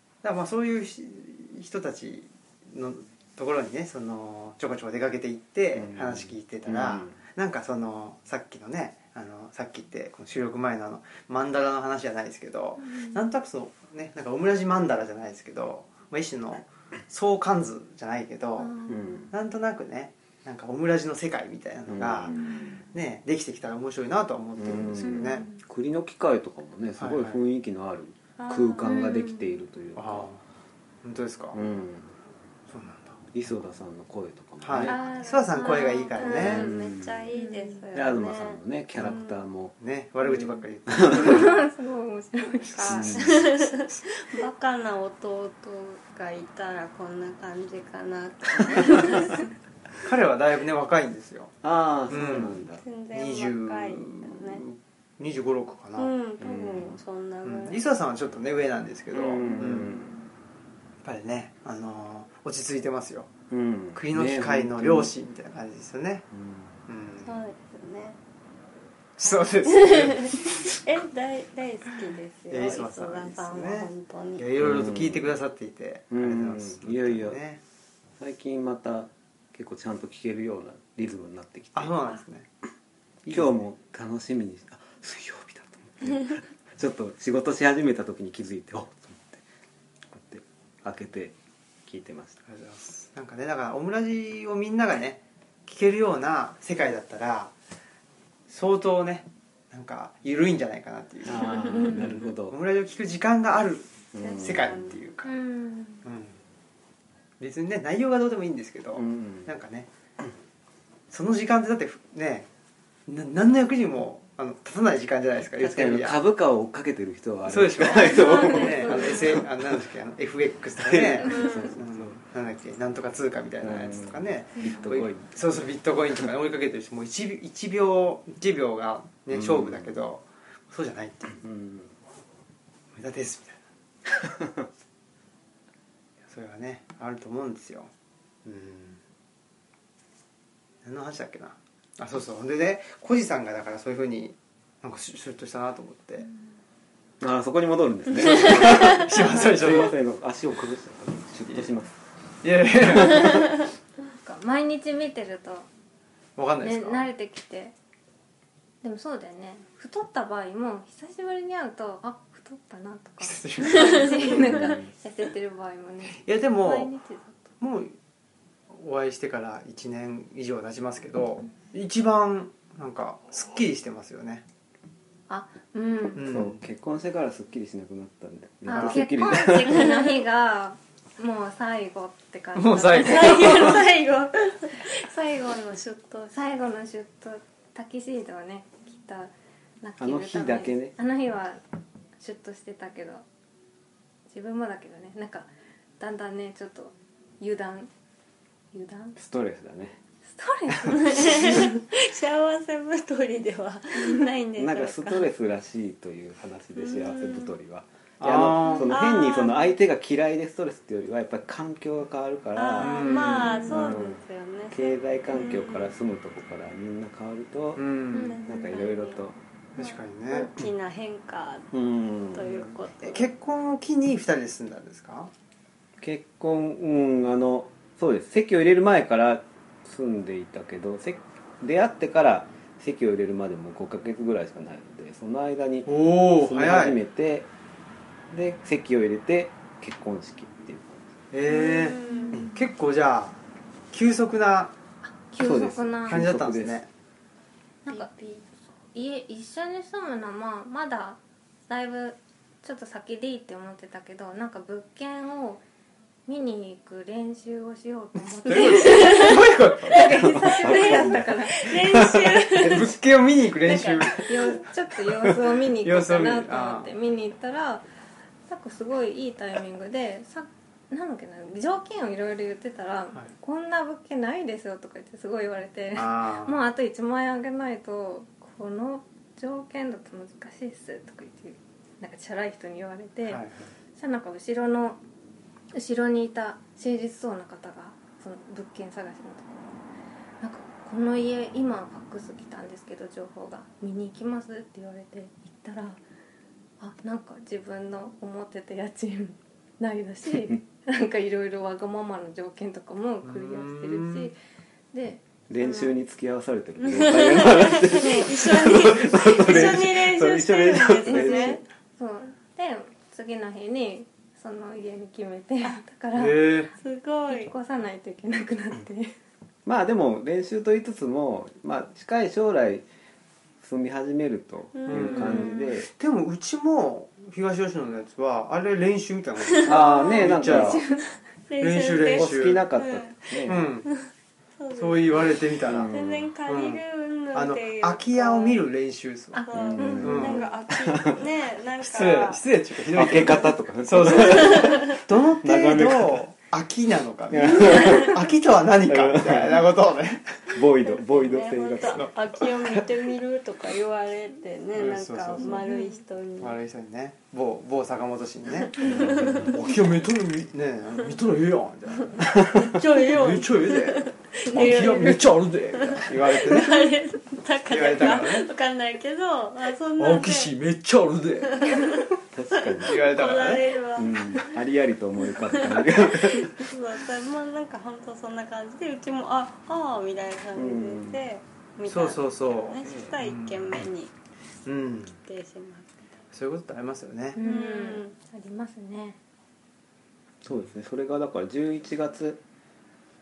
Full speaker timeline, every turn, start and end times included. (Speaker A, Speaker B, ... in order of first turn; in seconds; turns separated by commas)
Speaker A: 0.2-18.7, Speaker B: 5.8-7.2, Speaker C: 12.9-13.2, Speaker C: 18.6-19.2, Speaker B: 18.9-19.3, Speaker A: 19.3-25.5, Speaker B: 21.9-22.8, Speaker B: 24.6-30.3, Speaker C: 25.0-25.6, Speaker A: 27.0-27.4, Speaker D: 28.4-29.2, Speaker C: 28.8-29.5, Speaker A: 30.0-30.4, Speaker A: 31.0-31.6, Speaker B: 31.5-32.1, Speaker A: 32.7-33.2, Speaker B: 33.3-35.0, Speaker A: 34.6-36.6, Speaker C: 34.8-36.7, Speaker D: 35.5-39.4, Speaker B: 36.4-37.3, Speaker C: 37.3-37.8, Speaker B: 37.9-39.7, Speaker A: 39.8-41.6, Speaker C: 40.3-43.2, Speaker B: 40.9-41.4, Speaker D: 42.7-49.5, Speaker B: 42.8-43.5, Speaker A: 50.0-51.5, Speaker B: 51.6-52.8, Speaker A: 52.1-52.6, Speaker D: 52.2-54.6, Speaker A: 53.1-56.1, Speaker D: 56.0-57.8, Speaker B: 56.4-57.0, Speaker A: 57.4-60.0, Speaker B: 59.1-60.2, Speaker A: 61.0-63.3, Speaker B: 63.5-65.1, Speaker A: 63.9-66.3, Speaker B: 66.3-66.7, Speaker A: 66.9-67.3, Speaker D: 67.2-68.2, Speaker A: 69.2-70.8, Speaker D: 69.6-74.5, Speaker A: 72.5-77.6, Speaker B: 74.6-75.3, Speaker B: 76.1-77.4, Speaker B: 78.2-82.0, Speaker A: 81.7-82.5, Speaker A: 83.2-83.6, Speaker B: 83.3-89.4, Speaker B: 90.1-92.4, Speaker A: 92.5-97.5, Speaker A: 98.5-105.3, Speaker B: 101.2-102.6, Speaker C: 101.8-102.1, Speaker B: 104.1-105.0, Speaker D: 104.2-104.9, Speaker C: 105.2-106.0, Speaker A: 106.0-106.4, Speaker A: 107.4-109.9, Speaker B: 109.0-109.5, Speaker A: 111.1-112.5, Speaker A: 113.1-116.2, Speaker B: 115.6-119.6, Speaker A: 117.5-131.4, Speaker C: 117.9-119.4, Speaker B: 120.8-122.2, Speaker C: 121.3-121.6, Speaker D: 121.3-121.7, Speaker B: 123.6-125.6, Speaker B: 129.3-129.9, Speaker B: 131.4-131.9, Speaker A: 132.9-133.6, Speaker B: 134.2-134.7, Speaker A: 136.3-137.9, Speaker A: 138.4-139.0, Speaker A: 140.8-146.3, Speaker B: 147.2-152.0, Speaker A: 148.2-149.9, Speaker A: 152.4-153.5, Speaker B: 152.9-153.3, Speaker C: 154.0-155.7, Speaker A: 156.4-157.1, Speaker C: 156.6-157.7, Speaker C: 158.8-167.3, Speaker A: 163.2-164.7, Speaker D: 163.8-164.0, Speaker B: 164.3-164.9, Speaker A: 166.2-166.9, Speaker A: 167.6-168.0, Speaker A: 168.7-174.4, Speaker C: 175.3-176.3, Speaker A: 176.2-176.6, Speaker B: 176.2-179.9, Speaker C: 178.7-183.8, Speaker A: 178.7-179.0, Speaker D: 179.3-180.2, Speaker A: 182.6-183.8, Speaker D: 182.9-186.4, Speaker C: 186.3-191.6, Speaker B: 190.0-190.9, Speaker C: 192.2-193.2, Speaker C: 194.3-197.9, Speaker C: 198.7-199.2, Speaker B: 199.2-200.0, Speaker C: 200.3-201.7, Speaker D: 200.8-205.3, Speaker B: 204.6-214.2, Speaker D: 206.8-207.6, Speaker A: 208.2-209.0, Speaker D: 208.7-209.7, Speaker D: 212.6-215.9, Speaker A: 212.8-213.9, Speaker C: 213.1-213.7, Speaker B: 214.7-217.8, Speaker A: 217.8-218.4, Speaker C: 218.1-218.9, Speaker D: 218.2-219.2, Speaker B: 218.5-219.4, Speaker A: 219.8-220.5, Speaker D: 219.8-223.3, Speaker B: 221.7-222.8, Speaker A: 223.0-225.3, Speaker B: 226.0-237.5, Speaker A: 235.9-237.0, Speaker B: 238.3-241.1, Speaker A: 241.3-243.4, Speaker D: 241.5-242.4, Speaker C: 242.1-242.6, Speaker A: 243.9-244.7, Speaker C: 245.1-246.2, Speaker B: 245.4-246.8, Speaker A: 246.1-246.9, Speaker C: 247.9-248.1, Speaker D: 247.9-248.5, Speaker C: 248.9-255.6, Speaker C: 256.3-261.8, Speaker A: 258.4-260.5, Speaker D: 258.6-259.4, Speaker B: 260.2-262.9, Speaker D: 260.3-262.9, Speaker A: 262.6-264.7, Speaker D: 263.6-264.6, Speaker C: 264.1-267.9, Speaker A: 265.7-266.9, Speaker C: 268.5-283.4, Speaker A: 275.9-276.6, Speaker A: 283.2-283.6, Speaker C: 284.0-285.0, Speaker C: 285.7-289.8, Speaker C: 290.4-296.0, Speaker C: 296.8-304.3, Speaker A: 303.2-304.3, Speaker C: 304.9-306.0, Speaker B: 305.5-311.6, Speaker D: 306.8-311.6, Speaker C: 307.9-308.1, Speaker C: 311.1-316.6, Speaker A: 316.1-316.7, Speaker D: 316.8-317.5, Speaker C: 317.3-319.2, Speaker B: 319.7-322.9, Speaker B: 323.6-325.9, Speaker D: 324.8-325.6, Speaker A: 324.9-330.9, Speaker C: 325.2-325.7, Speaker D: 329.5-330.1, Speaker B: 329.6-330.8, Speaker C: 329.8-331.1, Speaker D: 331.5-338.6, Speaker A: 331.6-332.6, Speaker B: 332.1-333.7, Speaker A: 333.5-333.9, Speaker A: 334.7-335.9, Speaker B: 335.7-336.3, Speaker A: 336.5-336.8, Speaker A: 337.3-339.5, Speaker C: 339.4-340.3, Speaker D: 339.4-342.4, Speaker B: 339.5-341.2, Speaker A: 340.0-340.5, Speaker A: 341.8-350.6, Speaker B: 342.9-346.2, Speaker D: 344.2-345.0, Speaker B: 347.3-349.7, Speaker B: 350.5-352.1, Speaker D: 350.8-356.6, Speaker A: 354.8-355.6, Speaker C: 355.4-356.0, Speaker A: 356.4-366.9, Speaker D: 358.8-359.5, Speaker B: 358.8-359.5, Speaker D: 362.5-370.5, Speaker A: 367.7-368.5, Speaker A: 370.0-372.0, Speaker D: 371.4-374.6, Speaker B: 372.3-373.1, Speaker A: 372.8-373.8, Speaker B: 373.9-376.7, Speaker D: 375.3-384.1, Speaker B: 380.6-381.2, Speaker A: 381.9-383.8, Speaker B: 382.8-383.2, Speaker A: 384.7-385.2, Speaker D: 385.1-386.1, Speaker A: 386.3-387.4, Speaker C: 387.4-389.2, Speaker D: 387.4-388.1, Speaker B: 390.4-392.4